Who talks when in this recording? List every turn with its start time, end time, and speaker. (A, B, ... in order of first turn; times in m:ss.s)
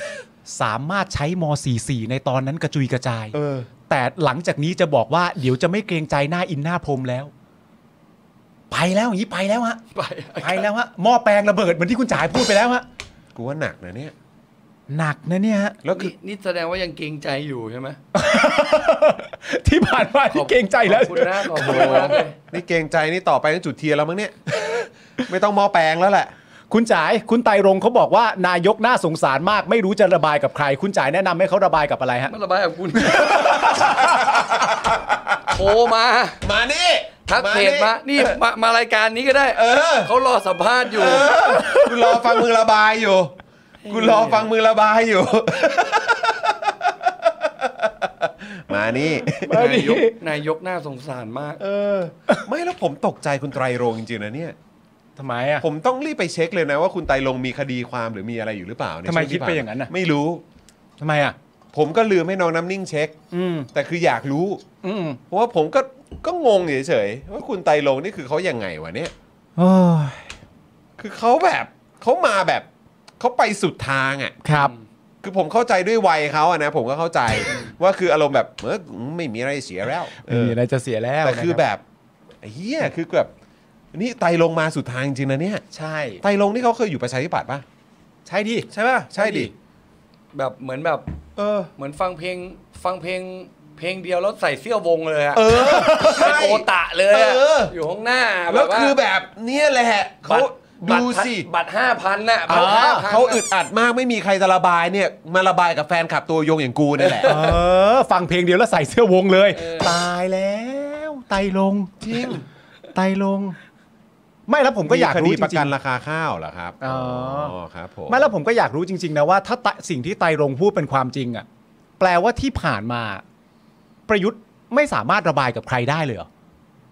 0:00.4-0:03.4 A
0:03.3-0:03.7 B
0:03.9-0:07.3 A
0:08.7-0:09.8 A
0:09.9-0:10.6 C
0:10.4-0:12.8 A
0:13.3-0:14.1 B
0:14.9-0:15.8 A
0:15.8-0:16.1 B
0:15.9-0:18.0 C
0:18.1-0:22.2 A
0:20.3-0:22.4 C
0:21.6-0:26.3 B
0:26.7-0:32.3 A
0:32.3-0:33.9 C
0:33.2-0:35.4 B
0:35.5-0:36.4 C
0:36.4-0:38.2 B
0:37.2-0:41.3 C
0:39.5-0:40.1 B
0:40.9-0:43.3 B
0:41.3-0:41.9 A
0:43.8-0:44.5 C
0:43.9-0:49.6 B
0:49.3-0:50.2 A
0:49.5-0:51.6 C
0:51.6-0:54.5 B
0:55.2-0:55.6 A
0:55.6-1:00.4 B
0:59.0-0:59.9 A
1:01.0-1:01.4 A
1:01.7-1:03.2 B
1:03.3-1:03.7 A
1:03.7-1:04.6 B
1:04.8-1:05.2 A
1:05.3-1:09.1 B
1:09.6-1:10.3 A
1:11.0-1:12.6 B
1:13.2-1:14.4 B
1:14.4-1:14.7 A
1:15.2-1:20.6 B
1:20.2-1:21.6 A
1:21.2-1:21.8 B
1:22.4-1:23.3 B
1:23.9-1:25.6 B
1:25.7-1:26.2 A
1:26.2-1:27.6 B
1:28.2-1:29.5 A
1:28.7-1:29.5 B
1:30.3-1:31.1 C
1:31.4-1:31.7 B
1:31.8-1:39.0 C
1:35.3-1:37.7 B
1:38.5-1:41.5 B
1:40.3-1:43.4 C
1:42.5-1:43.1 A
1:42.5-1:47.5 B
1:47.0-1:47.5 C
1:47.2-1:52.3 A
1:49.5-1:50.0 C
1:52.0-1:52.4 B
1:52.9-1:53.6 A
1:54.5-1:55.7 A
1:54.8-1:58.2 B
1:56.8-1:57.5 A
1:58.1-2:01.4 A
2:02.0-2:03.2 A
2:04.1-2:06.3 A